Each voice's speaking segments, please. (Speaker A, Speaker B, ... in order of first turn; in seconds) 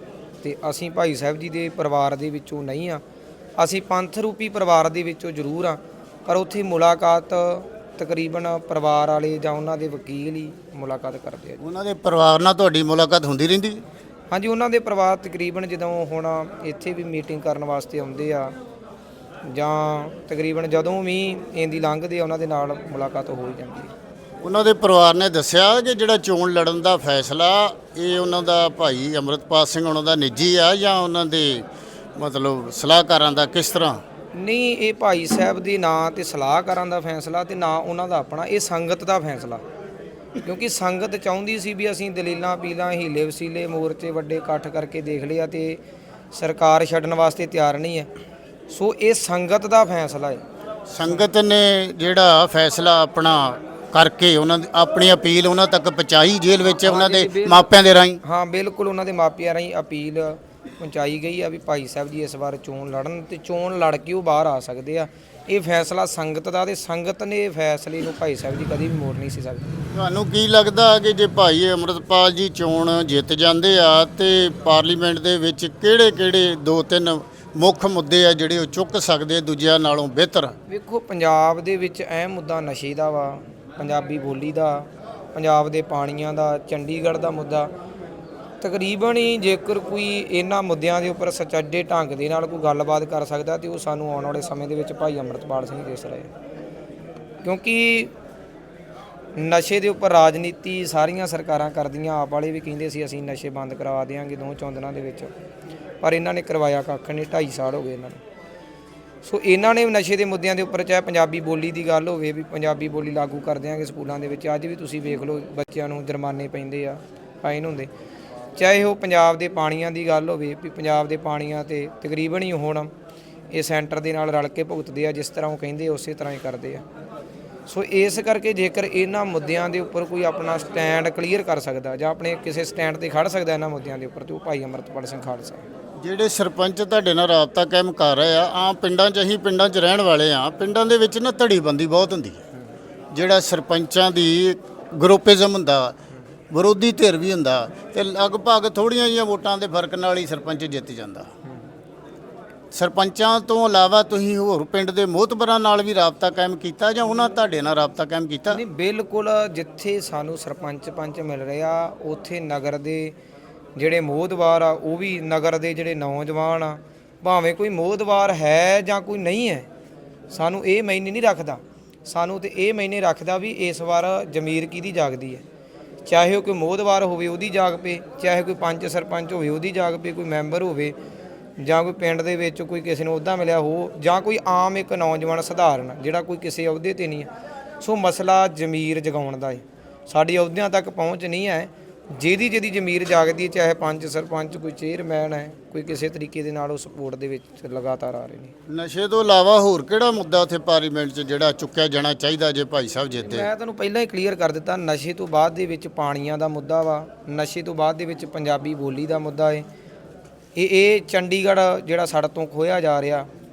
Speaker A: 0.4-3.0, 3.6-11.6, 14.3-18.6, 19.4-23.9, 34.4-39.6, 40.4-45.8, 46.3-48.1, 48.7-50.4, 56.6-57.7, 58.2-69.8, 80.7-87.7, 88.6-96.3, 97.4-98.1, 99.3-105.3, 106.0-108.2, 109.2-117.9, 118.6-122.9, 123.5-126.8, 127.7-135.7, 158.5-163.2, 163.8-169.7, 170.3-175.4, 176.1-181.0, 181.6-187.3, 187.8-198.5, 203.2-209.7, 210.6-213.3
Speaker B: 11.6-13.8, 24.4-31.6, 32.2-34.0, 50.9-58.2, 69.9-80.5, 136.0-142.4, 143.1-146.0, 146.5-151.3, 152.7-158.6, 198.7-203.5